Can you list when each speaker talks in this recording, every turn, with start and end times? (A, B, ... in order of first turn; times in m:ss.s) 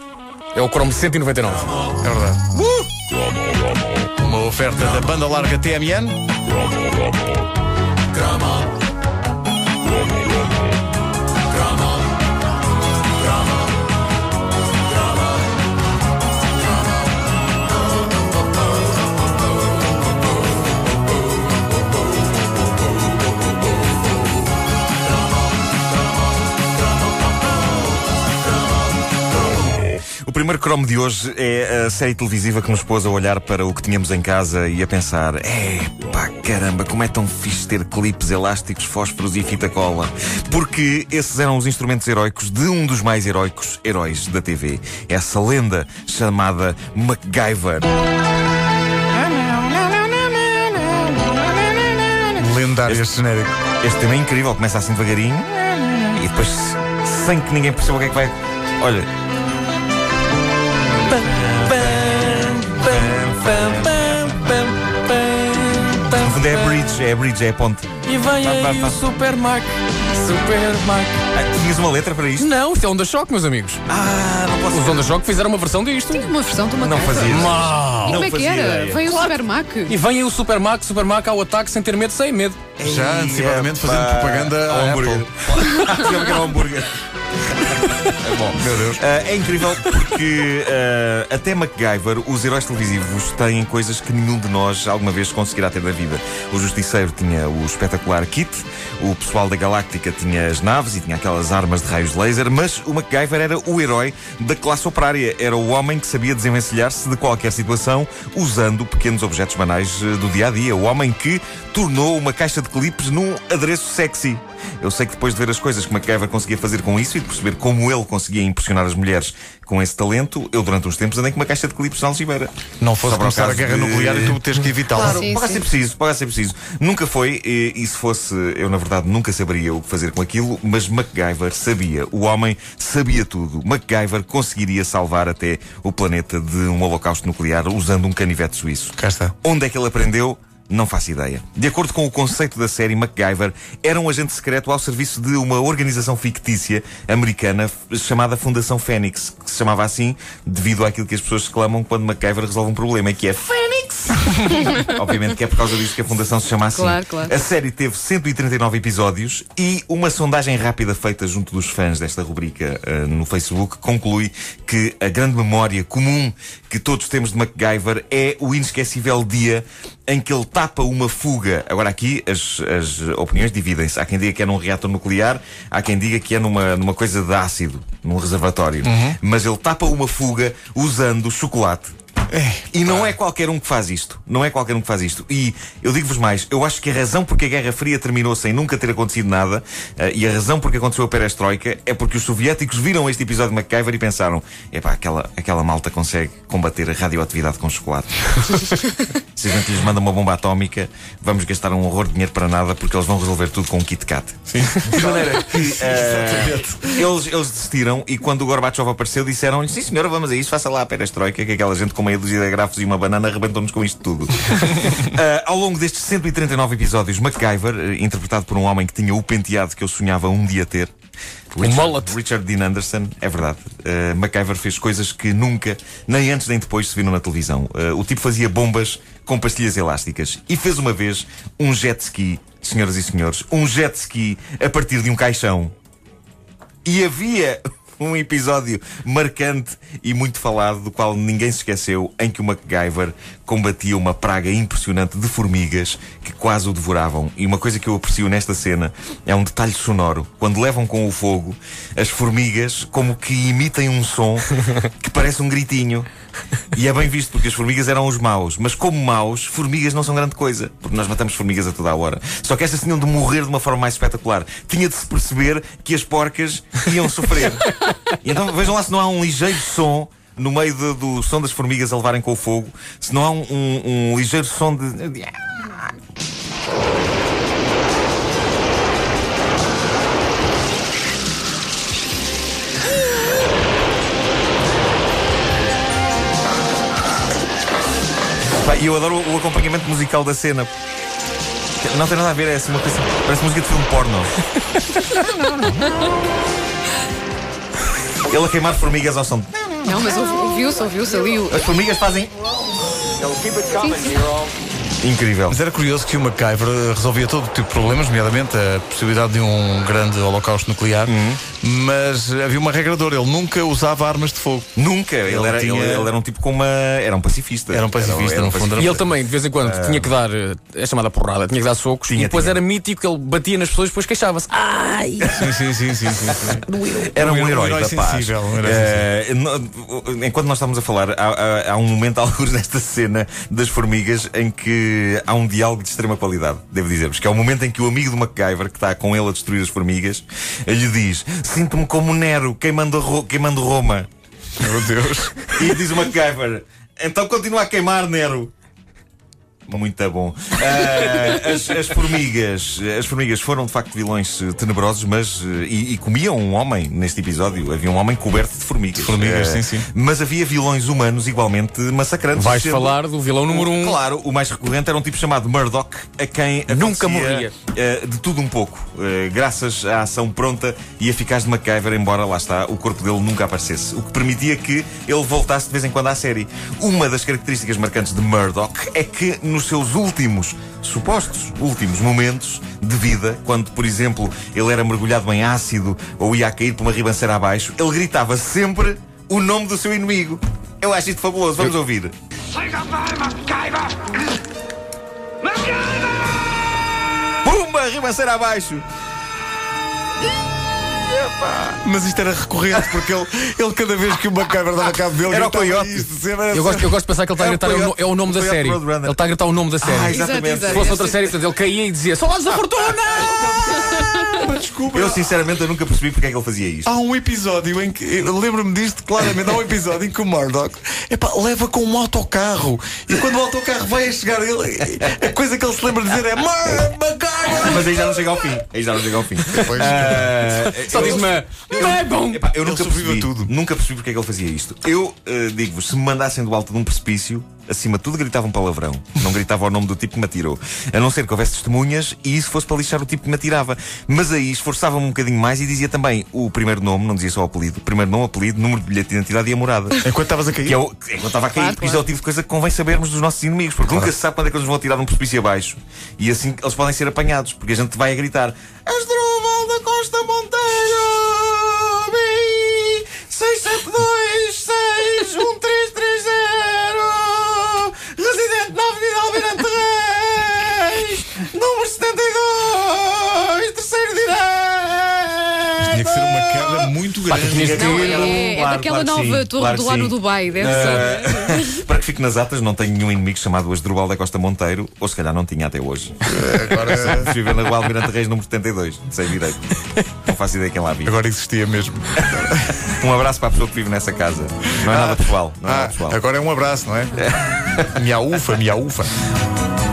0:00.5-0:01.9 A
0:02.0-0:02.5 B
0:02.6-0:02.8 C
0:04.1-0:06.2 B
0:30.2-0:47.9 C
0:49.3-0:52.3 C
0:52.4-0:53.5 B
0:53.8-0:59.1 C
1:01.0-1:06.7 A
1:01.7-1:04.2 C
1:06.1-1:09.0 C
1:08.0-1:11.2 A
1:11.3-1:12.5 C
1:12.4-1:13.8 A
1:13.9-1:15.1 C
1:14.7-1:16.3 A
1:16.1-1:20.0 D
1:16.8-1:19.1 C
1:17.2-1:18.2 A
1:19.0-1:22.6 A
1:22.8-2:02.5 C
1:22.8-1:25.3 B
1:28.5-1:29.0 B
2:02.8-2:05.3 B
2:03.0-3:01.9 C
2:04.9-2:05.6 D
2:19.0-2:19.3 B
2:36.7-2:37.3 D
2:58.8-2:59.2 B
3:02.3-3:03.1 B
3:02.7-3:40.9 C
3:24.5-3:27.0 B
3:41.5-3:55.7 C
3:41.6-3:42.1 A
3:56.8-4:16.1 C
4:16.7-4:35.9 C
4:48.4-4:50.7 C
4:51.8-4:54.3 C
4:58.3-4:59.9 C
4:59.8-5:01.6 D
5:01.5-5:02.3 C
5:03.2-5:04.2 C
5:03.4-5:04.5 A
5:05.0-5:05.6 C
5:05.5-5:14.7 B
5:11.0-5:11.4 C
5:14.8-5:19.1 C
5:15.2-5:16.1 B
5:17.7-5:19.0 B
5:18.8-5:25.4 A
5:19.6-5:20.1 C
5:22.1-5:22.6 C
5:25.3-5:26.6 B
5:26.2-5:44.1 C
5:26.6-5:27.1 D
5:27.2-5:29.0 B
5:44.6-5:45.6 B
5:45.5-5:48.5 C
5:49.7-6:32.1 C
5:58.9-5:59.9 B
6:02.3-6:04.0 A
6:06.7-6:07.5 A
6:37.4-6:38.8 C
6:40.9-6:41.8 C
6:41.8-6:46.9 B
6:42.7-6:43.1 C
6:45.2-6:46.1 C
6:46.5-6:53.6 A
6:47.4-6:49.2 C
6:49.8-6:51.1 C
6:50.1-6:51.2 D
6:53.2-6:55.3 B
6:53.8-6:54.2 D
6:54.9-6:56.9 C
6:56.8-7:08.1 B
7:07.5-7:30.1 C
7:09.6-7:11.9 B
7:10.7-7:12.4 A
7:12.5-7:13.5 B
7:30.0-7:30.8 B
7:30.6-8:11.2 C
7:31.6-7:32.0 D
7:55.8-7:57.9 B
7:57.2-7:58.4 A
7:57.8-8:01.8 D
8:06.2-8:07.3 B
8:11.0-8:12.8 B
8:12.1-8:16.2 C
8:14.7-8:17.2 B
8:17.2-8:17.9 C
8:17.9-8:19.1 B